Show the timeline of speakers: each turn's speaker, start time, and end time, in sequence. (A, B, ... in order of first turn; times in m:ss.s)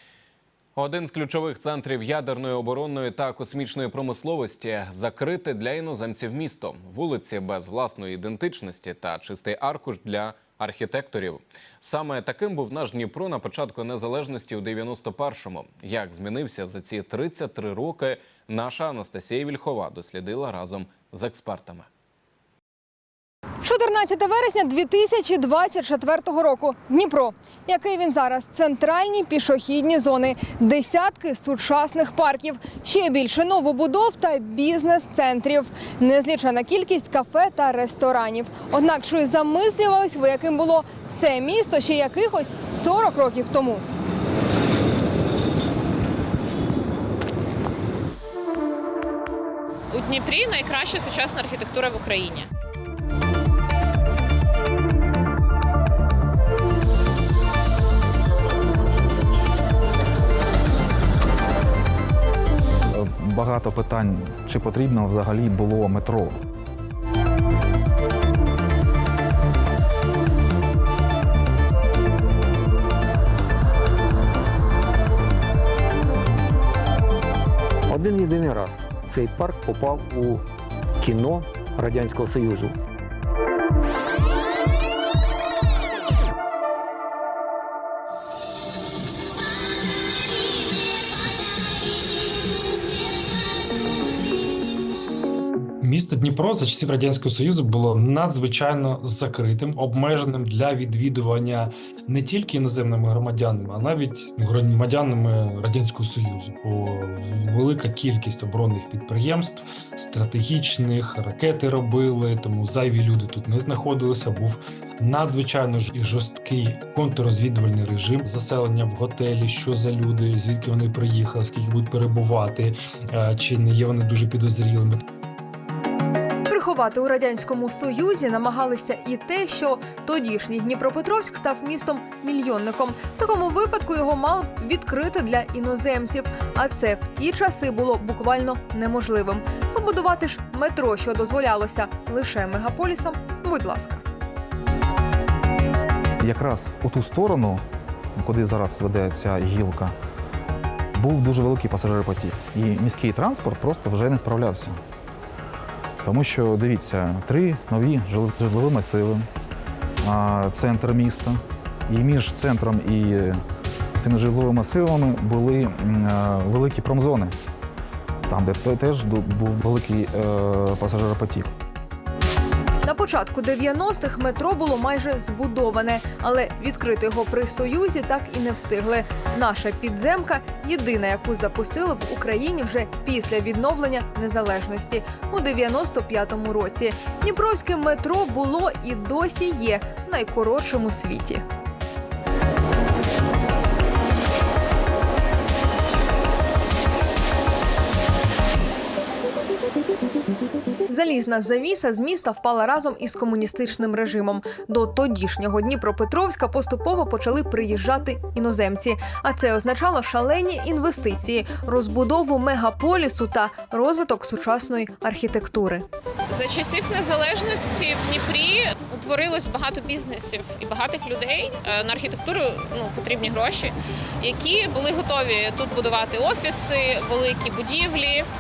0:00.8-0:21.9 A
0:23.6-0:43.8 B
0:49.9-0:52.5 C
1:02.8-1:06.4 D
1:17.9-1:20.5 E
1:21.0-1:22.8 E
1:35.8-2:05.0 F
2:06.5-2:24.0 B
2:26.2-2:27.6 D
2:28.2-2:29.9 D
2:31.0-2:34.8 D
2:36.0-2:39.3 D
2:40.0-2:43.4 D
2:44.0-2:47.4 D
2:48.2-2:51.5 D
2:52.8-3:11.4 B
3:20.9-3:35.8 B
3:36.3-3:48.3 C